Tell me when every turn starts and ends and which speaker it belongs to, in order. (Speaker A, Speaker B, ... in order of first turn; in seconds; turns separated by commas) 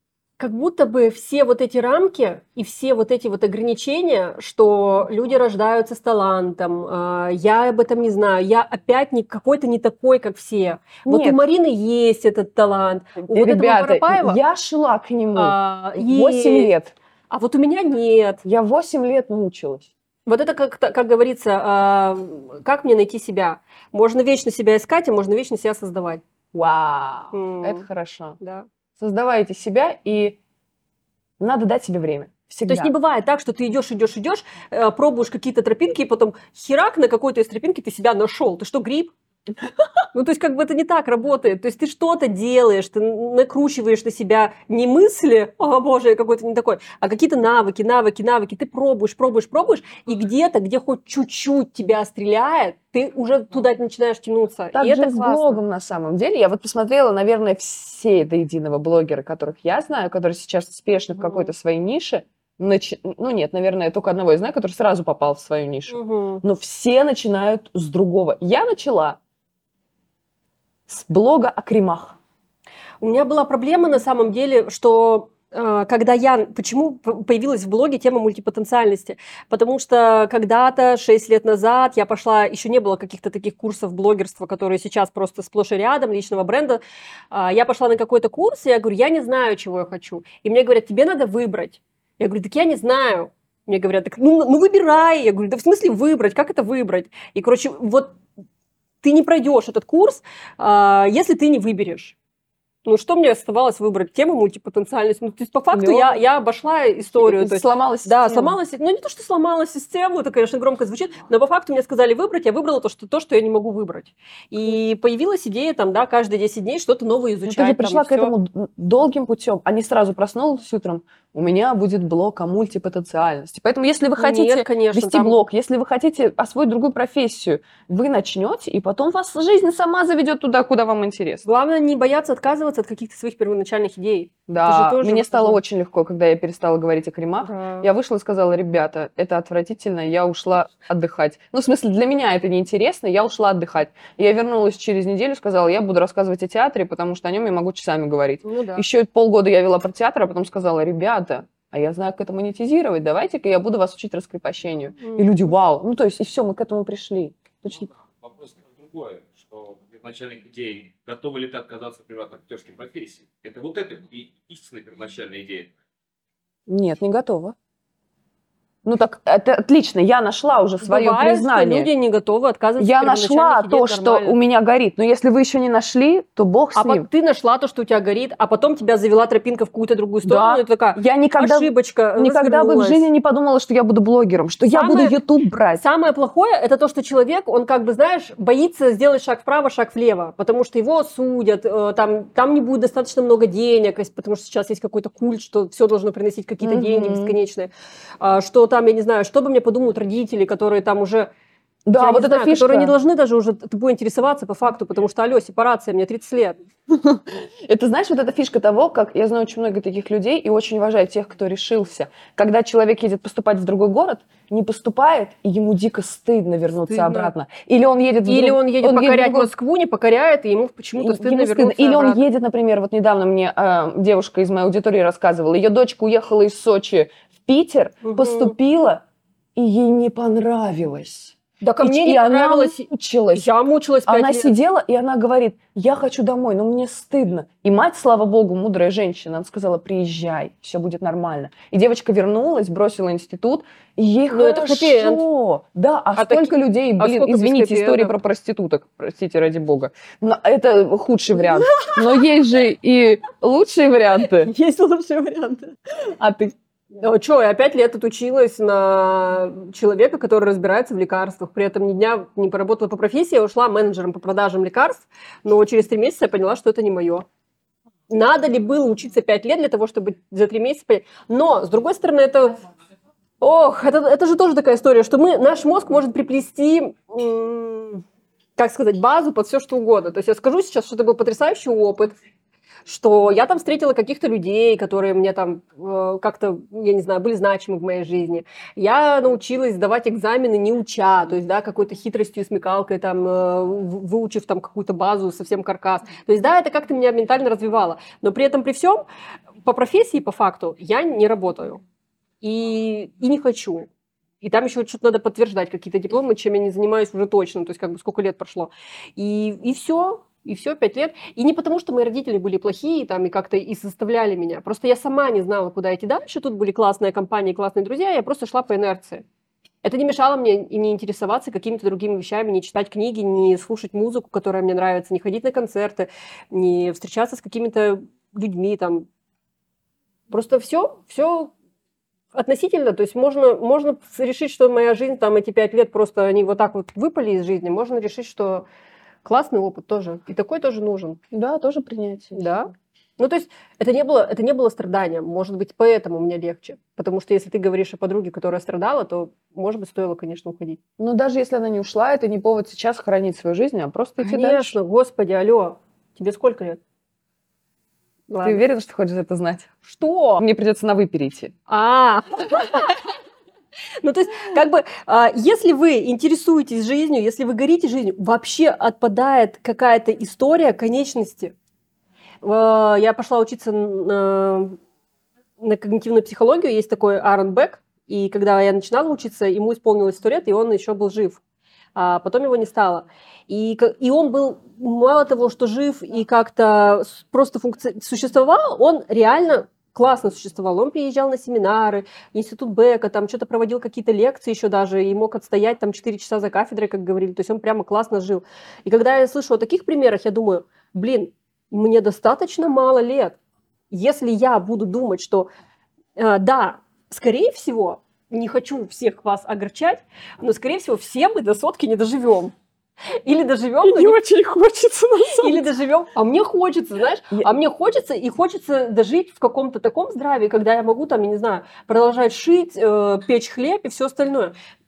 Speaker A: 0.4-14.4, Speaker B: 11.1-11.4, Speaker B: 13.2-16.9, Speaker A: 15.4-16.7, Speaker A: 17.3-18.4, Speaker B: 18.4-19.9, Speaker A: 20.3-26.2, Speaker B: 26.5-28.4, Speaker A: 27.3-27.8, Speaker A: 28.4-28.7, Speaker B: 29.0-30.4, Speaker B: 31.4-32.9, Speaker A: 32.7-39.1, Speaker A: 40.1-55.6, Speaker B: 54.7-69.2, Speaker A: 61.2-61.5, Speaker A: 65.9-66.4, Speaker B: 70.9-72.2, Speaker A: 73.0-98.2, Speaker A: 99.0-102.1, Speaker A: 102.8-118.3, Speaker B: 105.7-106.2, Speaker B: 107.2-108.5, Speaker B: 117.5-131.4, Speaker A: 124.2-125.4, Speaker A: 131.4-135.6, Speaker B: 134.5-157.9, Speaker A: 137.4-137.9, Speaker A: 148.4-148.8, Speaker A: 155.0-155.4, Speaker C: 158.1-165.8, Speaker B: 166.7-167.6, Speaker B: 168.8-171.9, Speaker A: 170.8-174.4, Speaker B: 172.8-177.1, Speaker A: 176.7-183.1, Speaker B: 180.2-185.8, Speaker A: 184.7-185.2, Speaker A: 185.8-201.3, Speaker B: 196.6-197.4, Speaker B: 201.9-202.9, Speaker A: 202.0-206.6, Speaker B: 206.9-219.5, Speaker A: 216.9-217.3, Speaker A: 218.3-222.2, Speaker B: 221.0-229.0, Speaker A: 228.0-228.6, Speaker B: 229.6-233.5, Speaker A: 231.6-234.5, Speaker B: 234.1-254.5, Speaker A: 244.3-245.2, Speaker A: 246.2-248.1, Speaker A: 251.3-252.3, Speaker A: 254.2-256.1, Speaker B: 256.2-256.5, Speaker A: 256.9-267.3, Speaker A: 268.1-272.6, Speaker A: 273.4-278.0, Speaker A: 278.6-282.1, Speaker A: 282.9-299.0, Speaker A: 299.6-301.8, Speaker A: 302.4-303.9, Speaker A: 304.4-319.2, Speaker A: 319.8-329.1, Speaker A: 330.3-331.5, Speaker A: 332.3-338.7, Speaker A: 339.2-341.2, Speaker B: 341.3-342.4, Speaker A: 342.4-350.8, Speaker B: 351.0-354.7, Speaker A: 354.2-356.8, Speaker A: 358.3-358.6, Speaker B: 358.4-359.7, Speaker A: 359.8-360.4, Speaker B: 360.4-361.5, Speaker A: 361.7-363.0, Speaker A: 364.0-371.5, Speaker A: 372.4-374.8, Speaker A: 375.6-381.4, Speaker A: 381.9-403.4, Speaker A: 403.9-405.5, Speaker A: 406.2-412.5, Speaker A: 413.2-414.2, Speaker B: 413.8-415.7, Speaker A: 415.3-424.6